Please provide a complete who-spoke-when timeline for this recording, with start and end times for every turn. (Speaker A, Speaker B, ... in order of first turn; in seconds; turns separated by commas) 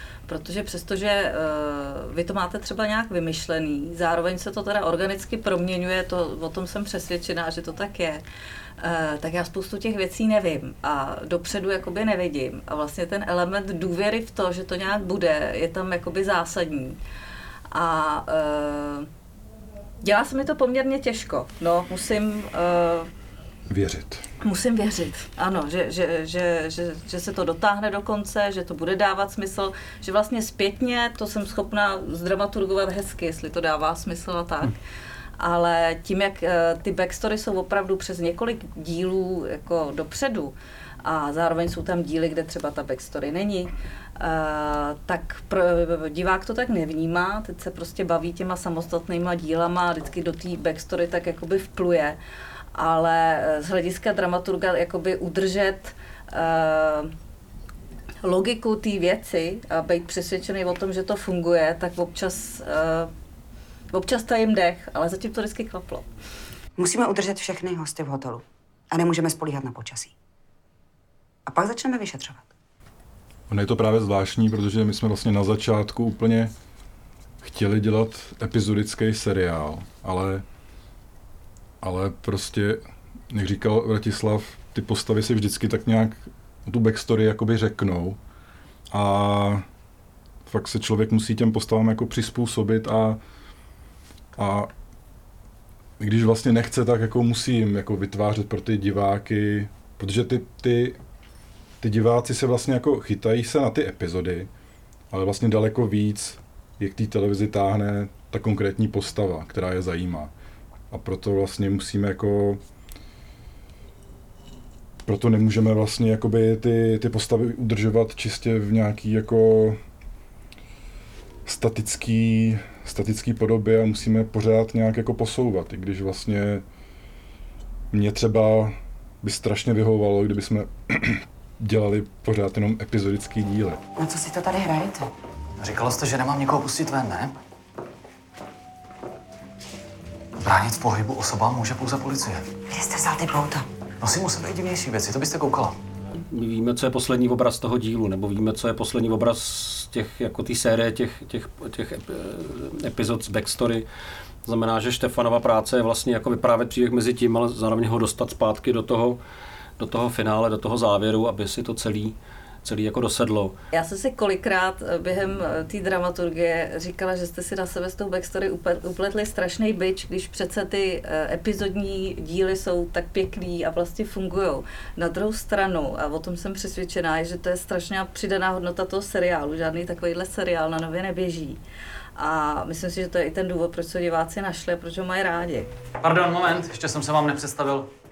Speaker A: 0.3-8.2, Speaker A: 8.8-17.0, Speaker A: 17.7-19.1, Speaker A: 20.0-23.1, Speaker B: 23.7-24.2, Speaker A: 24.4-34.7, Speaker A: 35.4-52.2, Speaker A: 52.7-57.1, Speaker A: 58.2-63.1, Speaker A: 63.9-66.0, Speaker C: 66.8-70.1, Speaker C: 71.5-72.5, Speaker B: 73.5-76.5, Speaker B: 77.4-80.4, Speaker B: 81.8-88.2, Speaker B: 88.9-89.6, Speaker B: 90.5-93.2, Speaker B: 94.4-94.7, Speaker B: 96.0-101.0, Speaker B: 101.8-104.5, Speaker B: 105.1-110.3, Speaker B: 110.9-112.6, Speaker B: 115.0-119.8, Speaker B: 121.5-126.6, Speaker B: 127.9-133.8, Speaker C: 134.0-135.1, Speaker D: 135.6-137.3, Speaker D: 140.4-142.4, Speaker C: 142.7-143.7, Speaker D: 144.0-145.8, Speaker E: 146.3-153.8, Speaker E: 154.4-159.2, Speaker E: 159.8-163.5, Speaker A: 163.7-181.6, Speaker A: 182.2-185.7, Speaker D: 186.0-187.9